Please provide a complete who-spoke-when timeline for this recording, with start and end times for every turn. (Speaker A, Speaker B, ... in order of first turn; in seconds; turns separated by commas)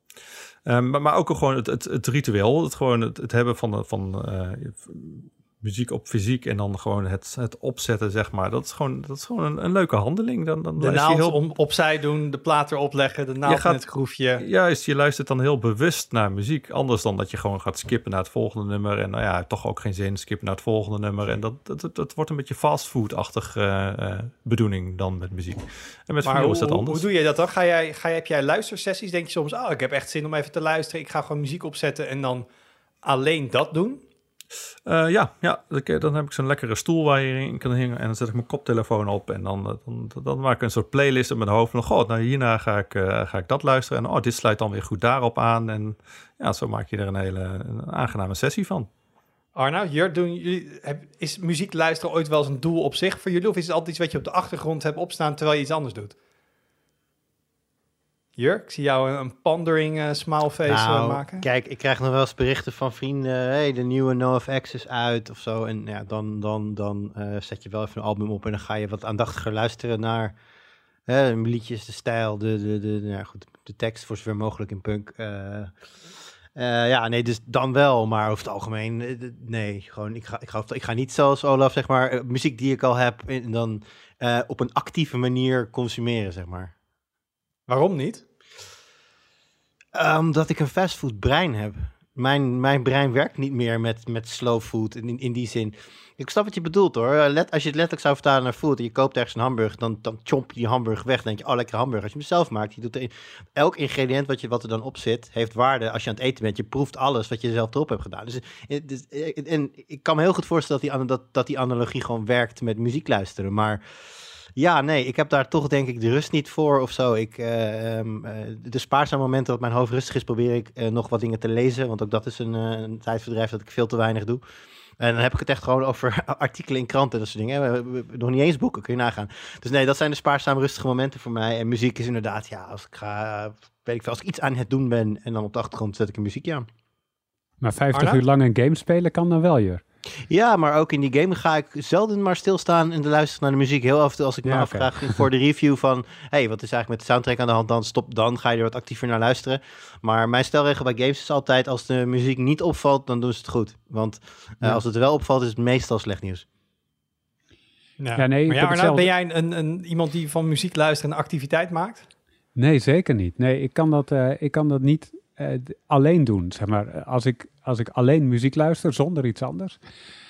Speaker A: 0.7-11.4, Speaker B: 10.8-14.4, Speaker A: 13.5-13.8, Speaker A: 14.4-27.0, Speaker B: 26.2-32.5, Speaker B: 33.0-34.0, Speaker A: 34.9-48.9, Speaker B: 49.5-56.1, Speaker B: 58.4-61.5, Speaker C: 60.7-70.3, Speaker C: 71.1-75.7, Speaker C: 76.5-86.7, Speaker B: 87.7-88.2, Speaker C: 89.9-113.8, Speaker C: 114.6-124.4, Speaker C: 125.0-136.7, Speaker D: 137.6-139.8, Speaker B: 137.9-138.2, Speaker C: 140.3-156.4, Speaker D: 144.4-145.2, Speaker B: 158.0-162.1, Speaker D: 158.2-159.1, Speaker D: 162.6-169.8